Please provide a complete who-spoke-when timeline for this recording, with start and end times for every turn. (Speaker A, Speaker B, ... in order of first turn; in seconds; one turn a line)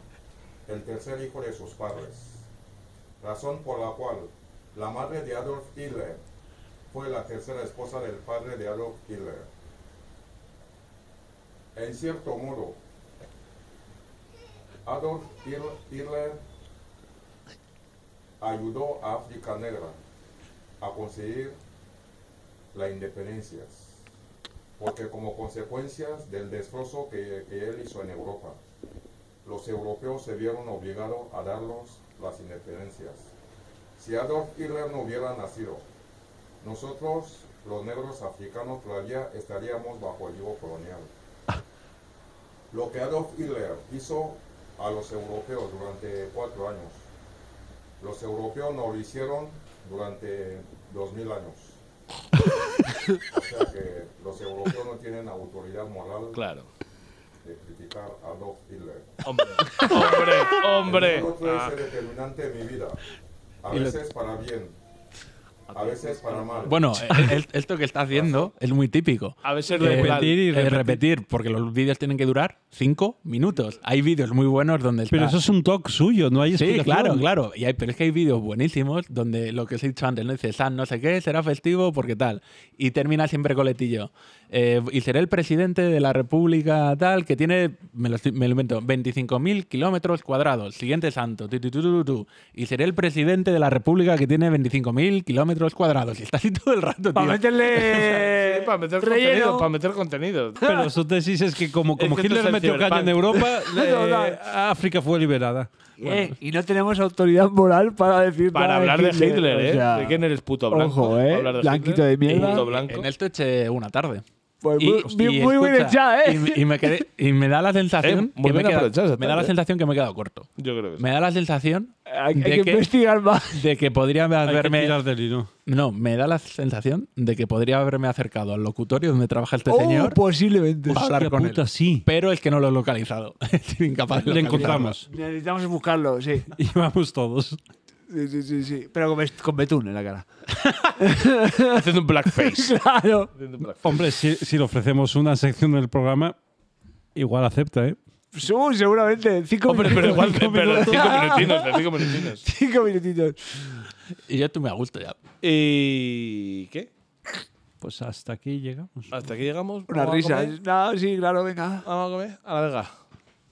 Speaker A: 0.7-2.5
Speaker A: 3.2-6.2
Speaker A: 6.9-9.5
Speaker A: 11.8-12.8
Speaker A: 14.9-16.4
Speaker A: 18.4-20.0
Speaker A: 20.8-21.6
Speaker A: 22.7-24.0
Speaker A: 24.8-28.6
Speaker A: 29.4-33.3
Speaker A: 34.0-35.9
Speaker A: 36.6-41.1
Speaker A: 42.7-47.1
Speaker A: 48.0-51.8
Speaker A: 53.2-56.4
Speaker B: 56.3-56.7
Speaker A: 57.4-59.2
Speaker B: 59.2-61.8
Speaker A: 60.8-63.0
Speaker A: 63.6-64.8
Speaker B: 65.7-66.8
Speaker A: 65.7-66.9
Speaker C: 66.7-75.4
Speaker D: 67.1-67.4
Speaker A: 68.1-68.5
Speaker B: 69.4-70.4
Speaker D: 69.8-71.0
Speaker D: 75.1-77.3
Speaker C: 76.5-98.1
Speaker E: 97.2-99.7
Speaker B: 97.8-100.6
Speaker E: 100.6-100.9
Speaker D: 100.6-106.3
Speaker B: 102.0-103.5
Speaker E: 103.7-104.4
Speaker E: 106.0-112.6
Speaker B: 108.5-113.1
Speaker C: 112.4-114.2
Speaker E: 114.6-117.0
Speaker C: 114.8-122.9
Speaker B: 118.0-119.5
Speaker B: 120.6-121.0
Speaker E: 122.1-123.7
Speaker C: 123.5-125.0
Speaker D: 124.5-125.5
Speaker C: 125.7-130.2
Speaker E: 129.7-131.0
Speaker D: 130.9-132.1
Speaker C: 130.9-134.9
Speaker D: 134.2-135.1
Speaker E: 134.4-136.5
Speaker D: 136.6-137.6
Speaker E: 138.1-140.3
Speaker E: 140.8-143.3
Speaker B: 141.7-142.7
Speaker B: 143.3-144.2
Speaker D: 143.8-146.3
Speaker D: 147.2-148.0
Speaker E: 148.3-153.7
Speaker B: 149.7-152.4
Speaker D: 150.1-151.4
Speaker C: 154.3-155.2
Speaker B: 155.4-156.9
Speaker D: 157.8-159.1
Speaker B: 159.1-160.6
Speaker E: 159.9-161.9
Speaker B: 161.8-162.9